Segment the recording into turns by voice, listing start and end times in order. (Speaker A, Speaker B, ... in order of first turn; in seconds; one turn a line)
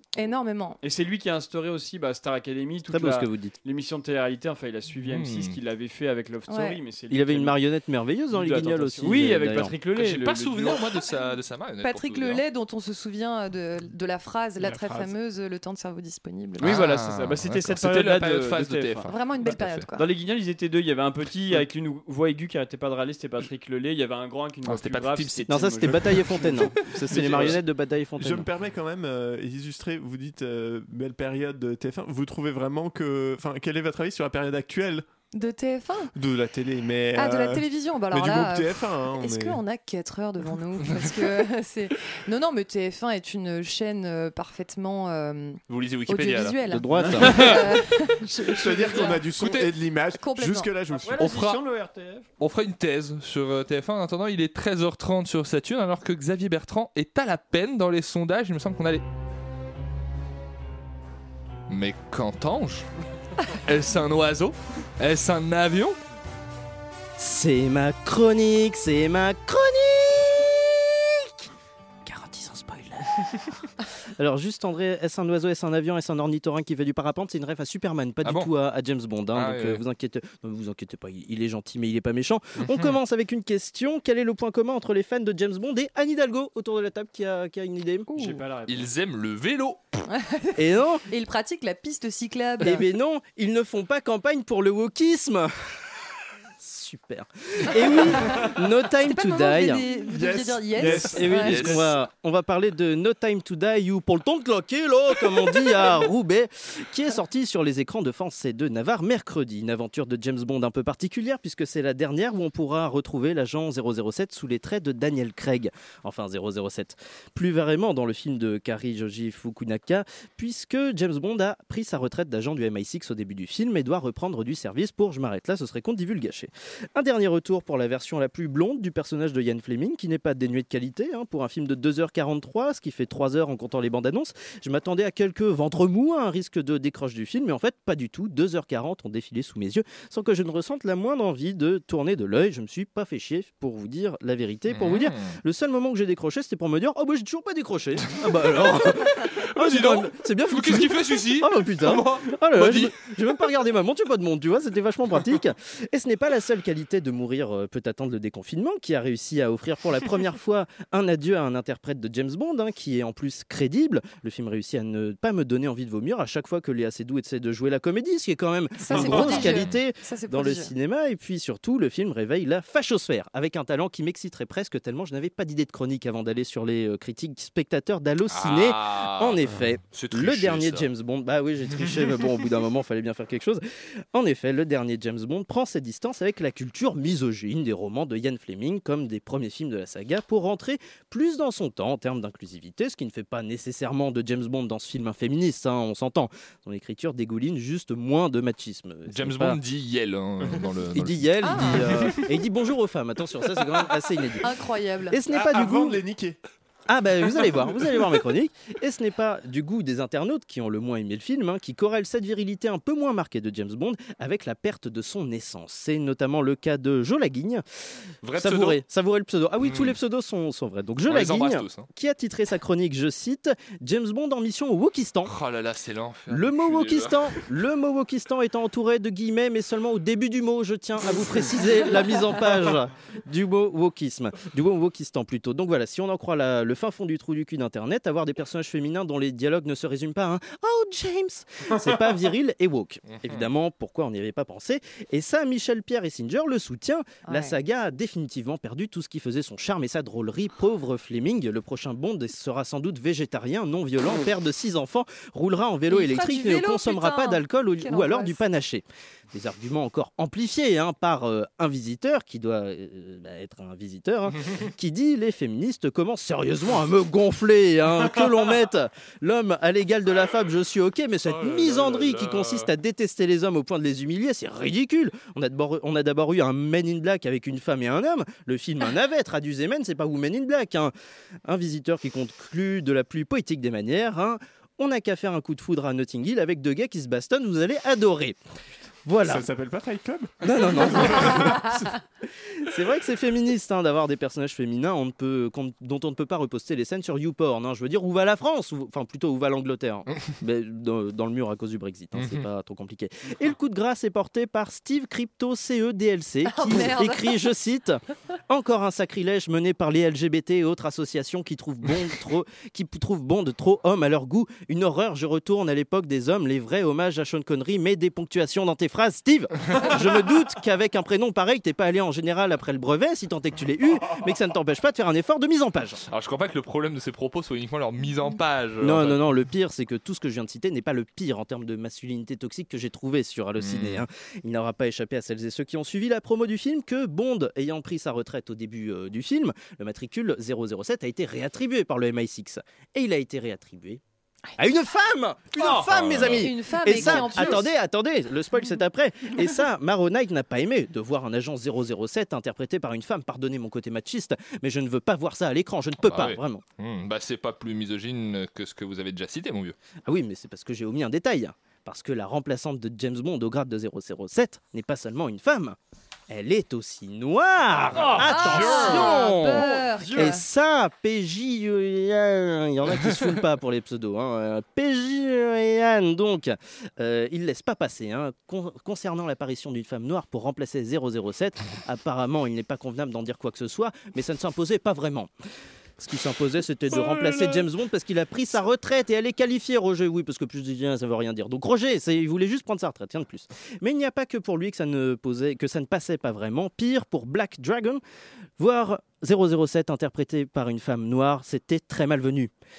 Speaker A: 0.1-0.8
Speaker B: 0.8-7.6
Speaker C: 2.9-3.5
Speaker D: 5.0-5.5
Speaker A: 6.5-6.8
Speaker C: 7.1-9.7
Speaker B: 8.3-10.8
Speaker D: 9.9-12.4
Speaker A: 11.8-16.8
Speaker E: 14.6-15.1
Speaker B: 16.6-19.1
Speaker D: 16.6-19.9
Speaker A: 19.1-20.0
Speaker B: 19.9-27.6
Speaker D: 24.6-25.7
Speaker C: 25.5-28.5
Speaker E: 26.1-27.6
Speaker E: 28.2-35.0
Speaker A: 35.3-36.1
Speaker E: 36.1-39.6
Speaker A: 37.1-49.3
Speaker D: 45.7-46.6
Speaker C: 46.7-47.5
Speaker B: 47.0-47.6
Speaker E: 48.5-51.1
Speaker D: 48.7-49.7
Speaker A: 50.2-50.7
Speaker B: 50.9-52.3
Speaker D: 51.1-51.6
Speaker D: 52.4-59.0
Speaker D: 61.7-62.9
Speaker D: 63.6-66.0
Speaker C: 67.2-71.5
Speaker C: 72.0-88.1
Speaker D: 78.2-78.5
Speaker D: 79.3-79.8
Speaker D: 82.6-83.0
Speaker A: 88.1-88.4
Speaker B: 88.2-88.9
Speaker D: 88.7-90.0
Speaker A: 90.1-92.8
Speaker C: 90.5-91.0
Speaker C: 92.6-95.5
Speaker C: 96.6-99.8
Speaker A: 97.9-101.7
Speaker E: 100.0-101.9
Speaker C: 100.8-199.6
Speaker D: 101.5-101.9
Speaker D: 144.7-145.4
Speaker D: 148.8-152.9
Speaker A: 168.8-170.7
Speaker D: 168.9-169.7
Speaker D: 178.3-180.9
Speaker D: 199.1-201.6
Speaker C: 200.9-204.5
Speaker A: 201.4-202.3
Speaker A: 204.4-205.2
Speaker C: 205.1-206.0
Speaker E: 205.2-206.4
Speaker C: 206.9-217.6
Speaker D: 218.2-218.8
Speaker C: 218.3-225.3
Speaker D: 219.6-219.9
Speaker D: 221.1-221.9
Speaker D: 225.2-227.3
Speaker C: 226.3-280.9
Speaker D: 243.1-243.5
Speaker A: 247.3-247.6
Speaker A: 255.9-258.4
Speaker D: 271.3-272.7
Speaker C: 281.4-288.4
Speaker C: 289.1-289.4
Speaker E: 289.2-291.9
Speaker C: 290.4-291.9
Speaker C: 292.4-326.0
Speaker D: 302.1-302.4
Speaker A: 306.5-307.4
Speaker D: 326.1-329.2
Speaker C: 328.8-344.0
Speaker D: 333.6-334.0
Speaker C: 344.6-356.6
Speaker B: 345.6-345.8
Speaker D: 345.9-346.5
Speaker A: 346.4-347.7
Speaker D: 356.0-359.8
Speaker C: 360.0-365.8
Speaker C: 366.3-385.3
Speaker B: 367.9-370.4
Speaker A: 368.2-370.4
Speaker C: 386.0-398.0
Speaker C: 398.6-402.5